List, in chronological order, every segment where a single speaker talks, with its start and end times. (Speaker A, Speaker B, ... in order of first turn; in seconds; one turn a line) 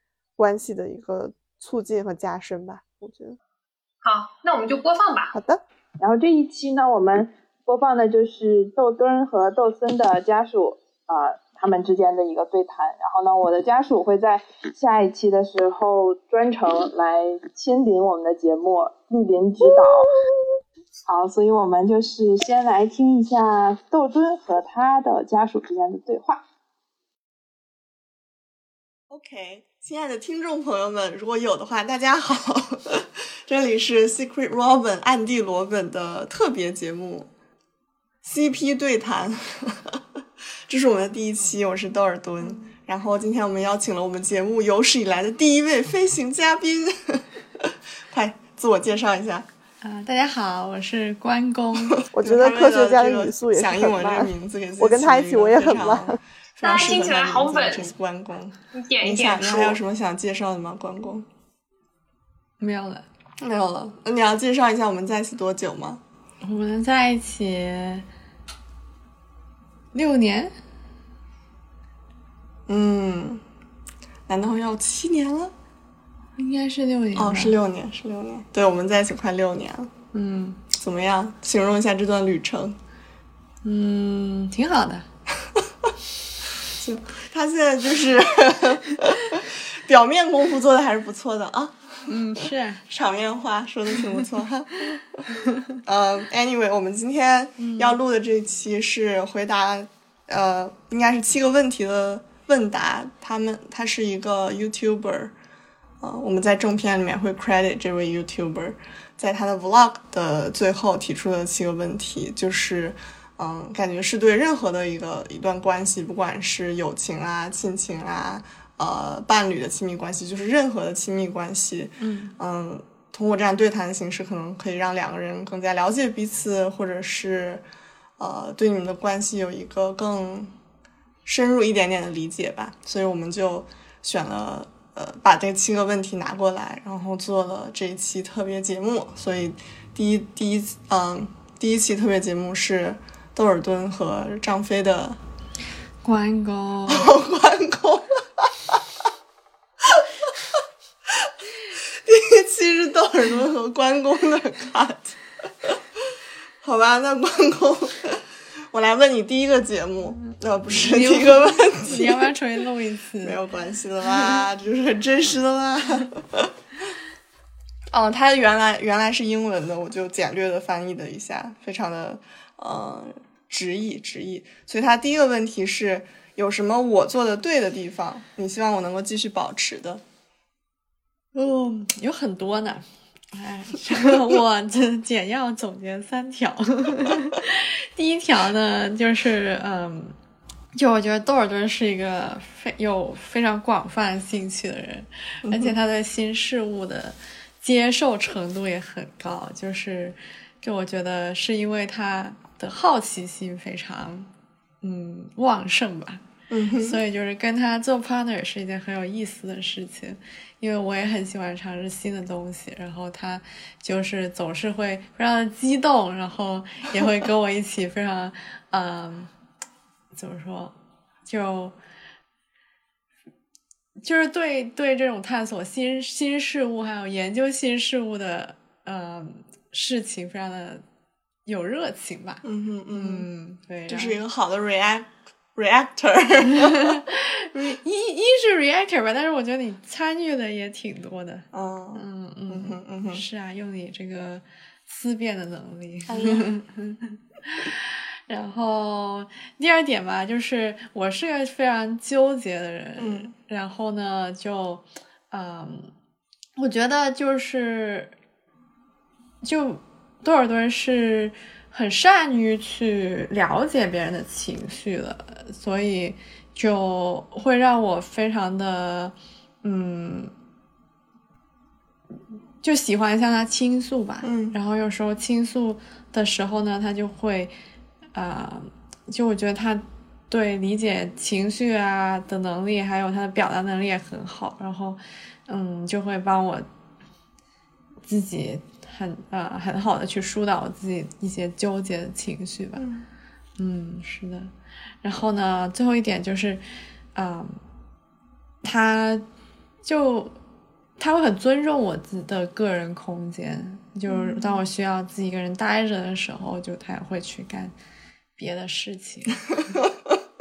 Speaker A: 0.4-3.4
Speaker B: 4.0-5.3
Speaker A: 5.3-5.6
Speaker C: 6.0-20.1
Speaker C: 21.1-26.4
Speaker D: 29.1-37.3
Speaker D: 38.2-40.0
Speaker D: 40.7-49.5
Speaker E: 49.8-52.0
Speaker D: 52.1-61.3
Speaker A: 52.1-56.2
Speaker B: 56.6-57.9
Speaker B: 58.7-59.8
Speaker E: 62.6-63.0
Speaker D: 63.4-66.0
Speaker E: 66.4-68.1
Speaker E: 69.9-70.5
Speaker D: 72.7-73.4
Speaker D: 74.3-75.5
Speaker E: 76.4-77.6
Speaker D: 77.2-79.9
Speaker E: 80.1-80.6
Speaker D: 80.7-82.8
Speaker E: 83.6-85.1
Speaker D: 86.8-92.1
Speaker E: 92.1-92.8
Speaker D: 92.9-95.2
Speaker D: 95.8-105.3
Speaker E: 97.6-98.0
Speaker D: 106.0-127.6
Speaker E: 122.0-122.3
Speaker D: 128.2-130.5
Speaker D: 131.3-145.2
Speaker E: 146.0-147.1
Speaker D: 146.9-148.8
Speaker D: 152.1-155.8
Speaker D: 156.6-162.3
Speaker E: 160.7-163.4
Speaker D: 163.2-166.5
Speaker D: 167.9-180.0
Speaker E: 181.3-190.2
Speaker E: 190.8-204.3
Speaker D: 195.5-195.7
Speaker E: 204.8-206.2
Speaker D: 206.5-207.0
Speaker E: 206.8-219.3
Speaker E: 220.1-220.8
Speaker E: 221.3-221.8
Speaker E: 224.0-230.8
Speaker E: 231.5-234.2
Speaker D: 232.4-233.3
Speaker D: 233.9-237.0
Speaker E: 236.6-255.9
Speaker D: 241.5-243.2
Speaker D: 246.1-246.5
Speaker D: 253.0-253.3
Speaker E: 256.6-258.1
Speaker E: 259.4-270.3
Speaker E: 272.6-277.5
Speaker D: 274.2-274.6
Speaker E: 278.1-286.7
Speaker E: 288.1-292.9
Speaker D: 292.8-293.1
Speaker E: 293.6-294.5
Speaker E: 295.0-296.6
Speaker E: 297.1-297.6
Speaker E: 298.6-299.3
Speaker E: 299.8-300.4
Speaker E: 301.0-307.8
Speaker D: 304.1-304.6
Speaker E: 308.4-309.5